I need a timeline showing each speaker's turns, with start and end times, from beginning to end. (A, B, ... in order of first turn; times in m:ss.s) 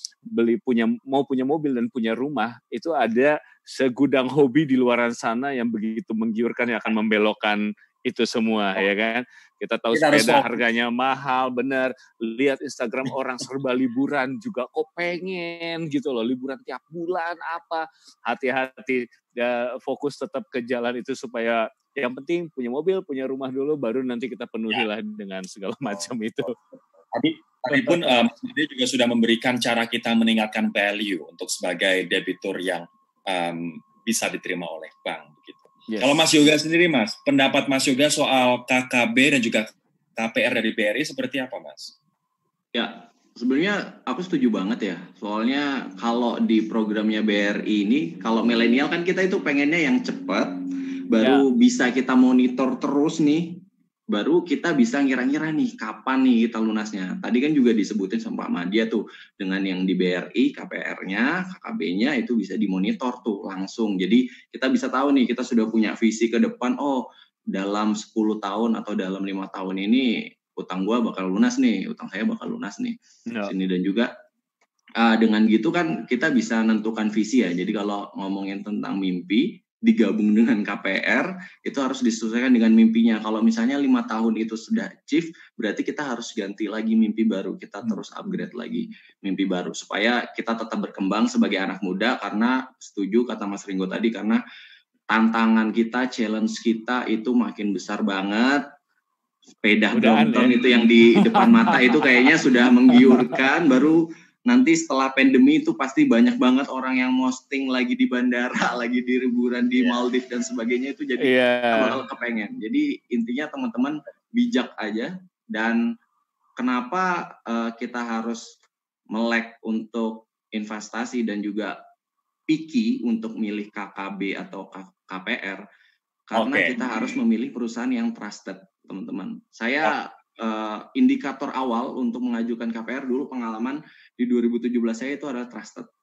0:00.3-0:26.6 A
0:09.9-0:10.6 B
0:27.1-0:41.9 B
0:27.7-0:28.2 A
0:35.9-0:36.3 A
0:42.7-1:14.1 C
0:51.2-0:51.4 A
1:13.3-1:13.5 A
1:15.0-1:34.4 C
1:35.1-1:38.6 C
1:39.6-1:55.8 C
1:39.9-1:42.3 A
1:42.9-1:43.3 A
1:51.2-1:52.0 A
1:56.6-1:58.6 C
1:59.1-2:01.8 C
2:02.5-2:05.6 C
2:06.3-2:15.9 C
2:06.3-2:07.1 B